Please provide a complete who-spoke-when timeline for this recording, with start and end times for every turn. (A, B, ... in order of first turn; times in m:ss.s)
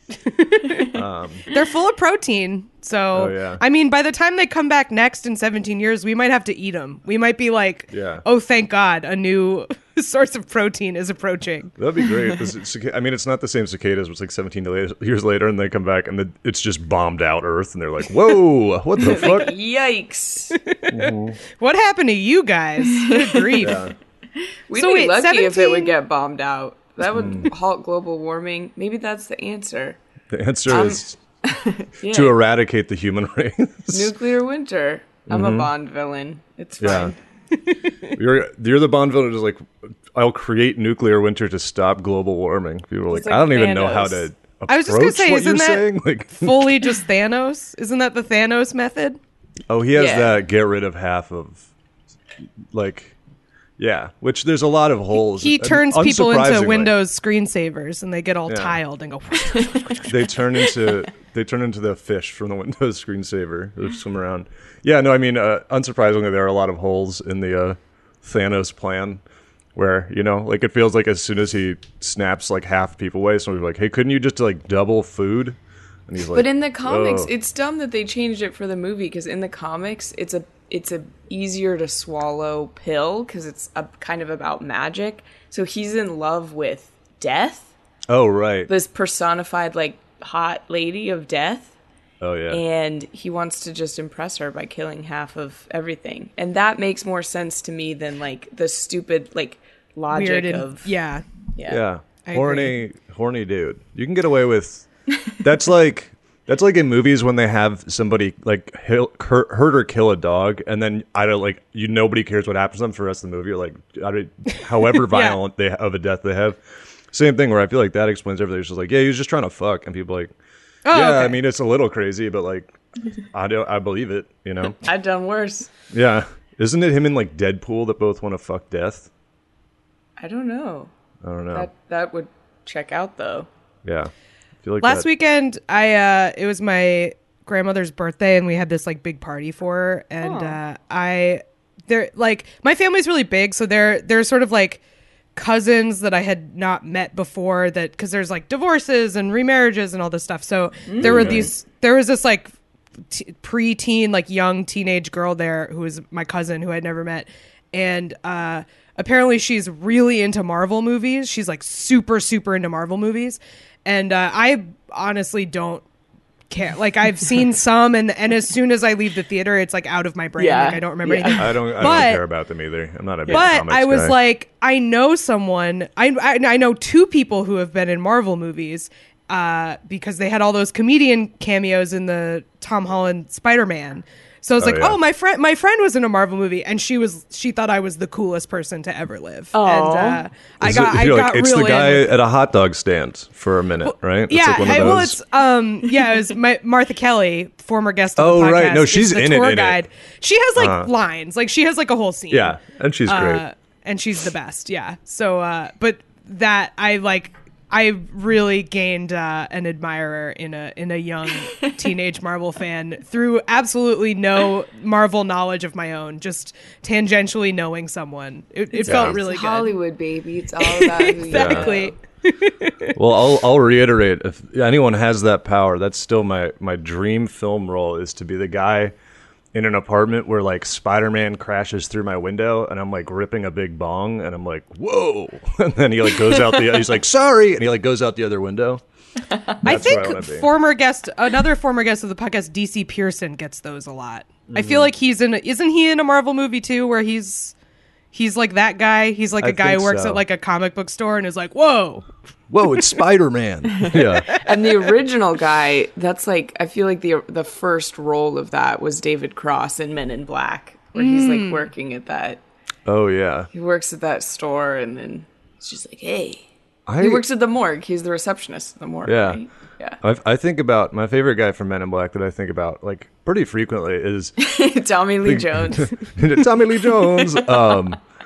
0:00.3-0:00.9 A
0:00.9-0:01.4 B
0:01.5-0:11.7 A
0:03.1-0:03.6 B
0:07.9-0:08.2 B
0:11.8-0:19.5 B
0:19.0-0:20.6 C
0:20.5-0:23.9 A
0:20.9-0:21.4 B
0:22.9-0:23.8 C
0:23.6-0:23.9 B
0:24.4-0:30.0 C
0:24.7-0:25.9 A
0:27.0-0:27.5 B
0:30.3-0:31.2 B
0:30.7-0:32.3 C
0:32.1-0:34.1 B
0:33.9-0:37.2 C
0:35.3-0:35.7 B
0:36.8-0:37.1 B
0:38.1-0:46.7 B
0:43.1-0:44.3 C
0:44.7-0:49.2 A
0:49.7-0:51.6 B
0:49.9-0:50.4 C
0:52.7-0:53.2 B
0:53.8-0:56.9 B
0:55.2-1:00.3 A
0:58.5-0:58.8 B
1:00.0-1:09.2 B
1:09.7-1:17.3 B
1:16.3-1:27.7 C
1:28.1-1:28.7 B
1:28.7-1:31.7 C
1:32.2-1:32.6 B
1:32.5-1:40.9 C
1:40.1-1:41.2 A
1:41.5-1:41.8 C
1:41.7-1:56.6 B
1:42.2-1:42.8 A
1:55.1-1:55.4 A
1:57.1-2:00.3 B
2:00.8-2:01.4 A
2:00.9-2:02.8 B
2:03.3-2:04.8 B
2:04.8-2:05.7 C
2:05.9-2:09.1 B
2:10.2-2:10.9 C
2:11.2-2:11.7 B
2:11.5-2:13.5 C
2:13.8-2:14.1 B
2:14.6-2:15.1 B
2:14.8-2:24.8 A
2:20.2-2:20.6 C
2:25.3-2:32.5 A
2:30.9-2:31.5 C
2:31.0-2:31.5 B
2:33.1-2:45.8 A
2:46.5-2:52.2 A
2:50.4-2:51.6 C
2:51.3-2:54.2 B
2:53.3-3:12.1 A
3:04.6-3:05.0 B
3:09.5-3:10.2 C
3:10.6-3:15.2 B
3:13.8-3:39.7 A
3:18.2-3:19.8 B
3:20.6-3:20.9 B
3:22.3-3:23.4 B
3:38.8-3:41.9 C
3:38.8-3:39.2 B
3:40.6-3:42.9 A
3:41.3-3:41.7 B
3:42.9-3:48.9 B
3:49.5-3:58.8 B
3:59.6-4:00.5 B
3:59.6-4:07.5 A
4:04.5-4:04.9 B
4:08.1-4:12.1 A
4:09.4-4:10.2 B
4:12.5-4:14.3 B
4:13.8-4:22.4 C
4:20.9-4:21.6 A
4:22.9-4:23.5 B
4:23.5-4:26.4 C
4:26.9-4:27.2 B
4:27.0-4:30.0 C
4:29.0-4:29.4 B
4:30.0-4:34.4 B
4:34.4-4:36.1 C
4:35.2-4:38.0 B
4:37.0-4:37.9 C